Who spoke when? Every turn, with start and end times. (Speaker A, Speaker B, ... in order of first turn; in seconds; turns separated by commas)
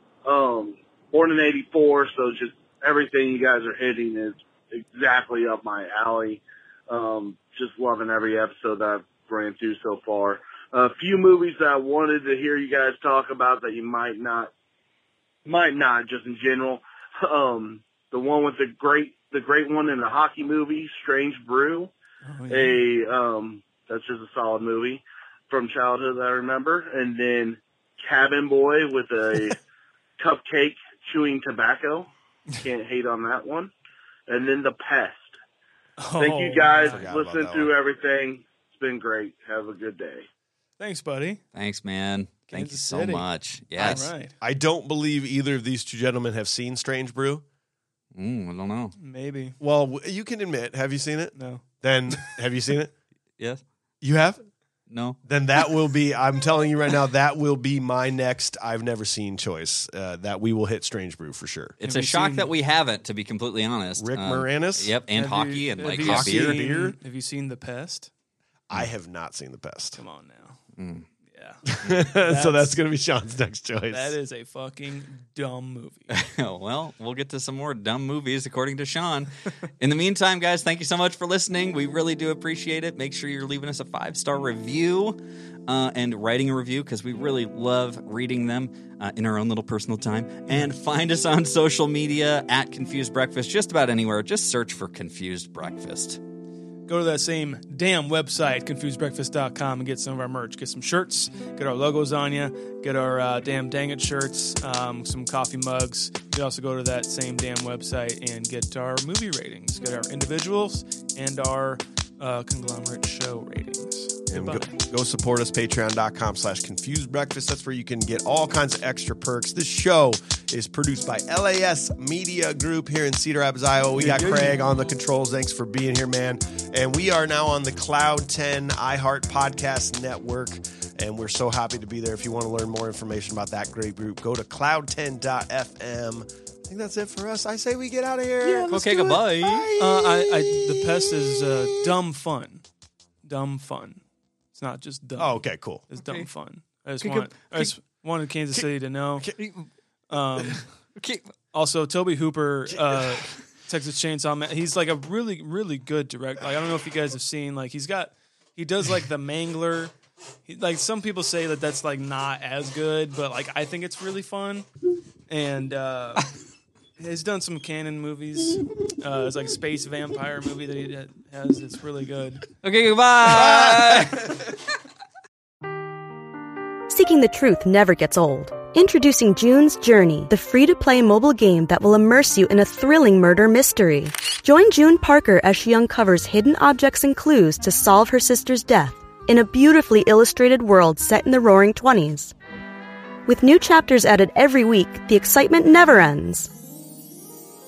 Speaker A: 0.2-14.5, Speaker A: 15.4-21.9, Speaker B: 22.2-22.8, Speaker A: 22.5-29.6, Speaker A: 30.2-32.1, Speaker A: 32.6-33.7, Speaker A: 34.3-35.3, Speaker B: 36.0-37.0, Speaker A: 36.2-40.3, Speaker C: 36.7-37.7, Speaker B: 40.8-41.4, Speaker D: 41.5-44.1, Speaker B: 42.5-43.2, Speaker B: 43.8-44.3, Speaker C: 43.8-47.4, Speaker D: 48.1-48.9, Speaker B: 49.0-49.5, Speaker C: 49.6-52.9, Speaker B: 51.4-51.6, Speaker C: 54.0-54.4, Speaker D: 54.9-55.2, Speaker C: 55.2-61.8, Speaker B: 61.8-62.5, Speaker D: 61.8-66.6, Speaker C: 64.0-64.9, Speaker B: 65.1-68.1, Speaker C: 65.9-67.0, Speaker C: 68.7-70.0, Speaker B: 70.0-70.6, Speaker D: 70.8-71.1, Speaker B: 71.2-71.6, Speaker C: 71.7-74.1, Speaker B: 72.2-72.8, Speaker B: 73.9-76.1, Speaker D: 76.1-96.2, Speaker B: 96.8-114.8, Speaker C: 114.3-140.4, Speaker B: 124.0-124.6, Speaker D: 138.4-139.7, Speaker B: 139.8-142.6, Speaker B: 143.2-144.0, Speaker B: 144.5-149.3, Speaker C: 145.2-145.8, Speaker D: 145.9-146.3, Speaker D: 147.0-147.7, Speaker B: 150.1-150.6, Speaker D: 151.0-151.3, Speaker B: 151.5-159.9, Speaker B: 160.4-164.7, Speaker B: 165.3-166.2, Speaker B: 167.0-172.4, Speaker D: 172.6-174.5, Speaker C: 173.4-173.8, Speaker E: 176.9-192.3, Speaker E: 193.3-196.5